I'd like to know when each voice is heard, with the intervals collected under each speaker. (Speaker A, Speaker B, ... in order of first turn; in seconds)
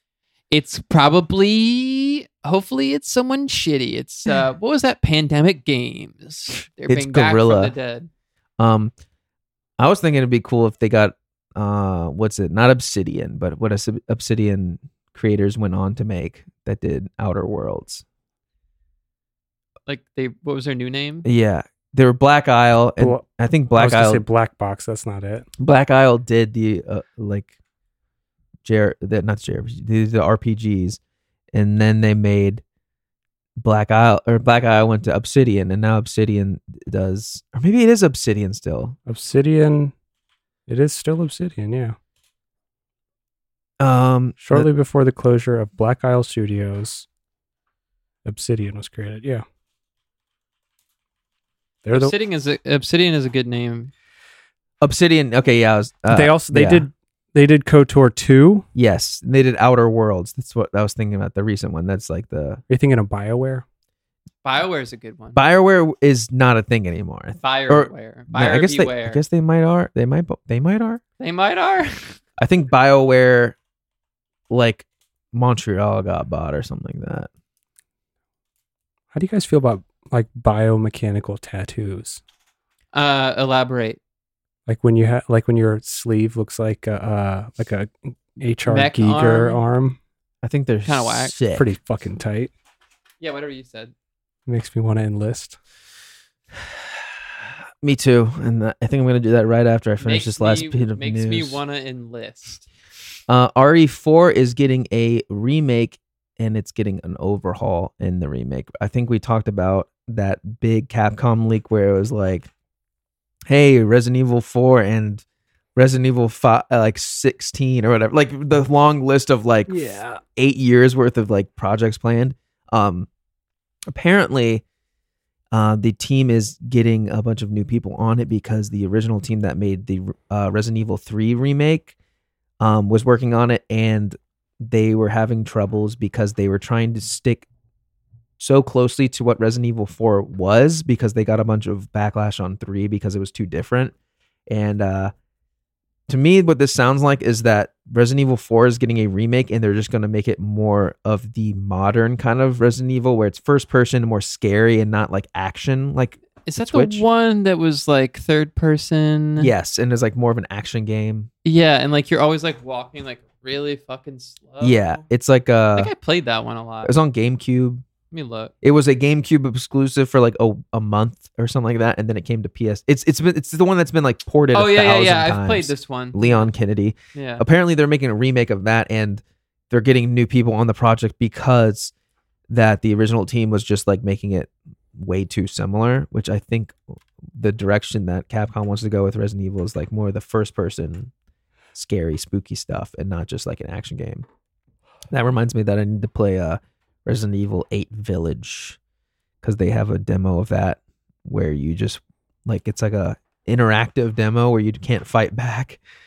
Speaker A: 0.5-8.1, 19.9-21.3, 51.9-53.9, 64.4-65.4, 67.4-69.2, 71.2-72.2, 82.9-84.0, 88.7-89.6, 90.8-91.3, 93.2-93.9, 100.0-102.7, 156.4-159.5, 161.4-165.0, 165.8-166.9, 168.1-168.5, 174.5-176.5, 177.1-177.4
Speaker B: 6.9-7.7, 8.6-8.9, 9.8-18.0, 21.2-24.2, 25.6-27.5, 28.6-31.0, 31.5-32.6, 33.6-39.0, 43.8-44.7, 54.8-56.9, 58.7-62.6, 65.3-71.0, 72.4-73.5, 74.5-77.3, 90.4-91.7, 97.8-101.6, 103.3-112.5, 113.5-115.2, 115.8-123.1, 123.9-124.6, 125.5-131.9, 132.6-137.4, 138.4-143.9, 144.5-145.1, 146.1-157.0, 159.4-161.3, 164.6-165.9, 166.8-167.8, 168.6-181.9, 182.5-186.8, 187.3-191.1, 191.7-194.2, 195.1-198.8, 199.4-205.8
Speaker C: 23.0-25.5, 39.1-39.9, 40.7-42.0, 44.4-47.0, 48.2-49.4, 51.8-52.1, 56.1-58.6, 62.7-63.6, 79.1-82.2, 84.7-90.0, 91.5-92.5, 94.5-95.6, 119.7-120.2